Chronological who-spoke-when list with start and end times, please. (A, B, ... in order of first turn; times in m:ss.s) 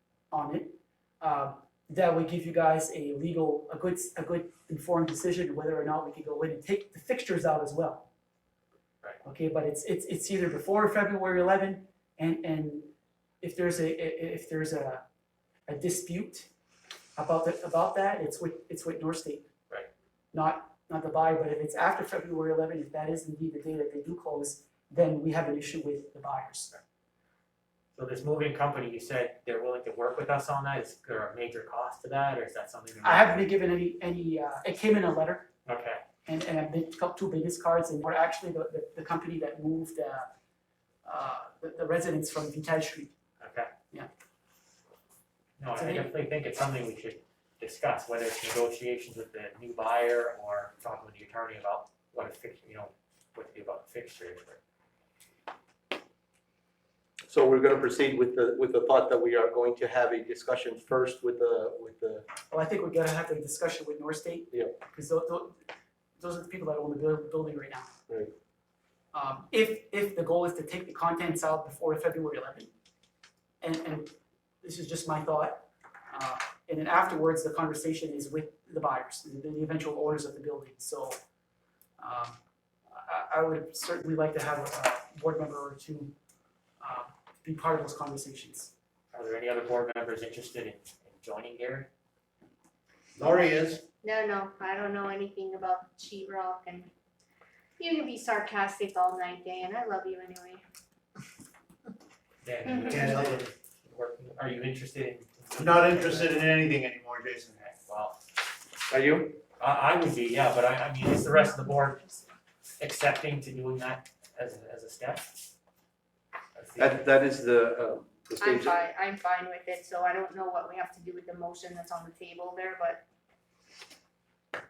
0:00.3-0:08.1 A
0:09.2-0:12.9 A
0:13.4-0:15.0 A
0:15.7-0:16.5 A
0:17.2-0:19.5 A
0:20.3-0:26.7 A
0:28.0-0:33.5 B
0:33.0-0:35.5 A
0:35.7-0:36.0 B
0:36.3-0:40.3 A
0:41.0-0:43.1 A
0:43.4-0:43.7 B
0:45.6-0:54.6 B
0:45.7-0:46.2 A
0:57.3-1:02.3 C
1:02.5-1:05.6 A
1:06.2-1:07.9 A
1:08.1-1:08.3 C
1:09.1-1:12.7 A
1:13.6-1:21.2 A
1:22.0-1:22.4 A
1:22.9-1:26.2 A
1:26.8-1:28.7 A
1:29.1-1:31.9 B
1:33.2-1:33.8 D
1:34.0-1:36.9 E
1:37.8-1:40.6 E
1:42.4-1:46.6 B
1:42.8-1:43.4 D
1:45.6-1:47.7 D
1:47.7-1:48.2 B
1:48.9-1:49.4 C
1:49.6-1:52.0 B
1:52.8-1:55.3 B
1:56.6-1:57.1 B
1:56.8-1:58.8 C
1:58.4-2:03.0 E